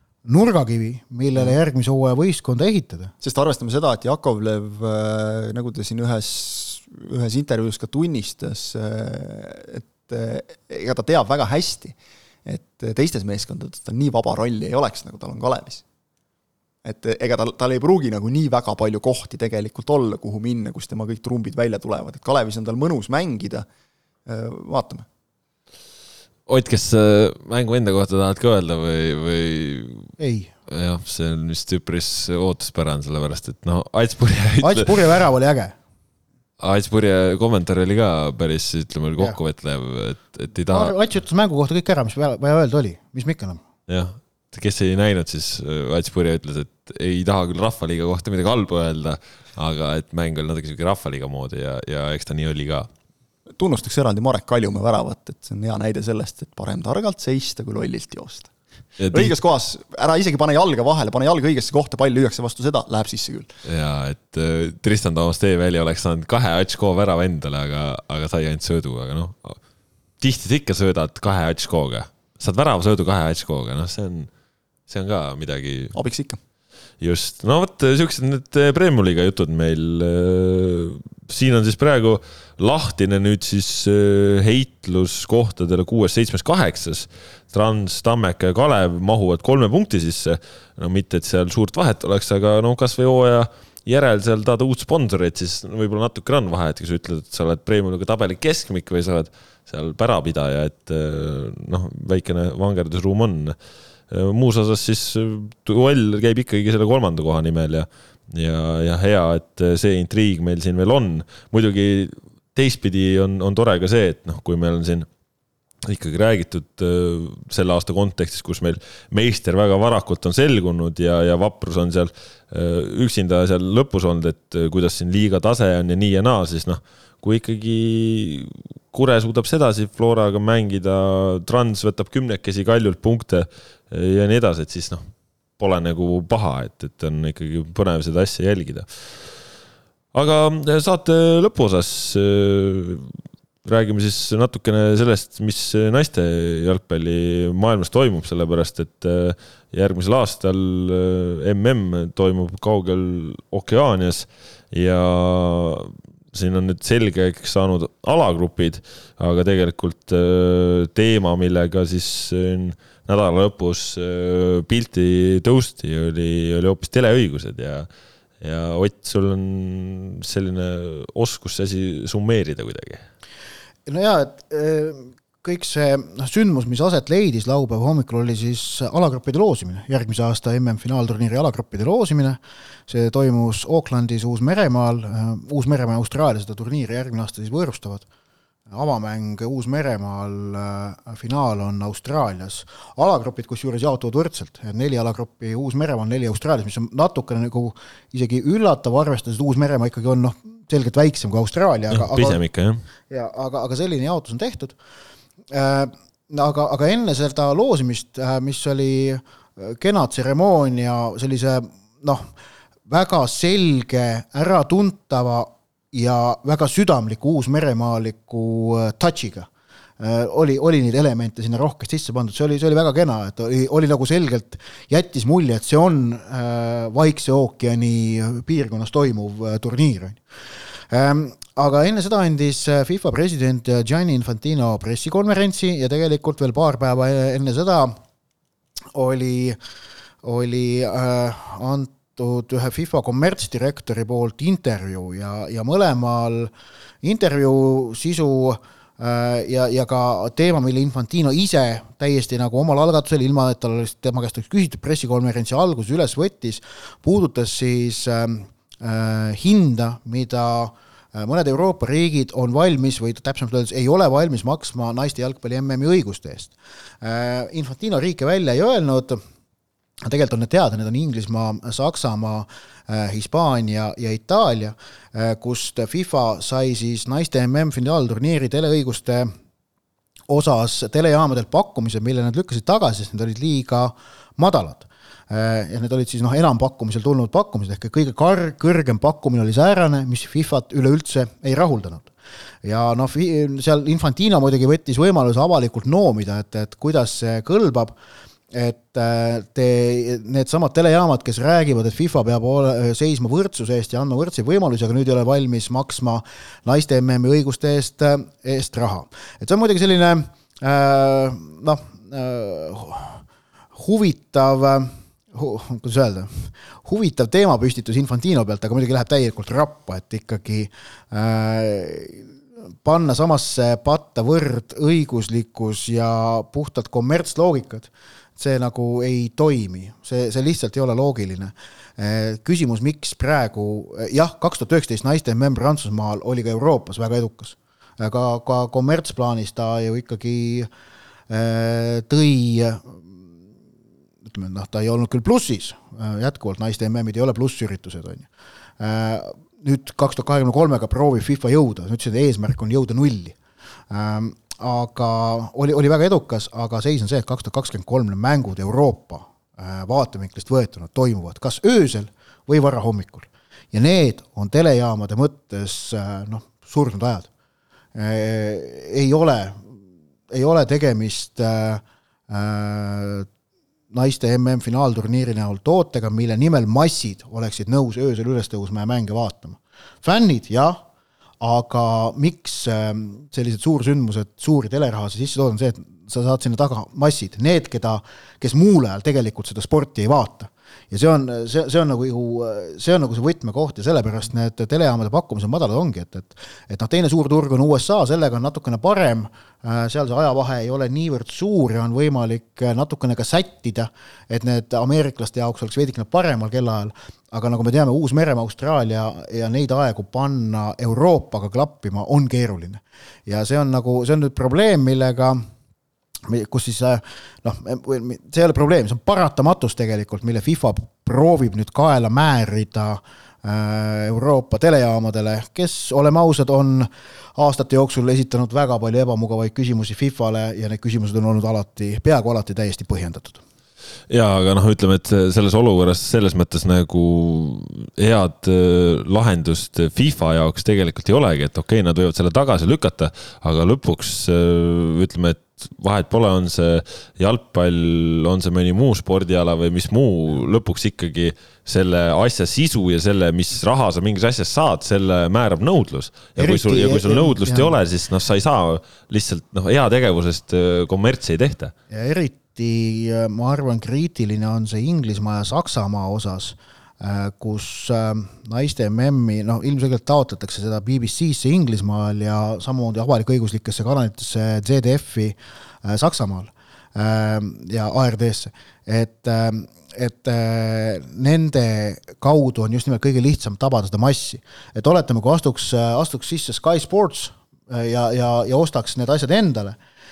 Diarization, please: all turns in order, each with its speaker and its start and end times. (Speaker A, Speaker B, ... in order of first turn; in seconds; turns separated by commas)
Speaker A: 0.2-3.1, Speaker B: 3.2-15.8, Speaker B: 16.8-23.6, Speaker B: 24.2-25.1, Speaker C: 26.5-30.1, Speaker A: 30.2-30.5, Speaker C: 30.7-35.1, Speaker A: 34.6-35.7, Speaker C: 36.6-40.9, Speaker A: 40.7-43.6, Speaker C: 43.9-52.9, Speaker B: 53.5-58.5, Speaker C: 59.0-59.3, Speaker B: 59.1-63.5, Speaker C: 63.6-69.6, Speaker C: 70.2-74.3, Speaker C: 74.9-76.0, Speaker B: 75.9-76.4, Speaker C: 77.0-103.5, Speaker C: 104.1-115.1, Speaker C: 115.8-135.0, Speaker C: 135.6-138.9, Speaker C: 140.1-143.1, Speaker C: 143.6-167.9, Speaker C: 168.4-173.0, Speaker A: 173.9-188.1, Speaker A: 188.7-202.4, Speaker C: 201.9-202.8, Speaker A: 203.1-204.8, Speaker A: 205.5-212.2, Speaker A: 212.9-219.5, Speaker A: 220.0-230.2, Speaker A: 230.9-237.9, Speaker A: 238.9-239.6, Speaker A: 240.2-246.5, Speaker A: 247.0-269.2, Speaker A: 270.1-279.3, Speaker A: 280.3-292.1, Speaker A: 292.6-297.9, Speaker A: 298.5-313.2, Speaker A: 313.7-322.3, Speaker A: 322.8-340.7, Speaker A: 341.3-343.2, Speaker A: 344.2-348.3, Speaker A: 348.8-353.4, Speaker A: 353.9-367.3, Speaker A: 367.9-369.7, Speaker A: 370.3-373.3, Speaker A: 373.9-380.8, Speaker A: 381.4-415.4, Speaker A: 416.3-433.4, Speaker C: 434.1-461.7, Speaker A: 456.4-457.7, Speaker A: 461.9-489.8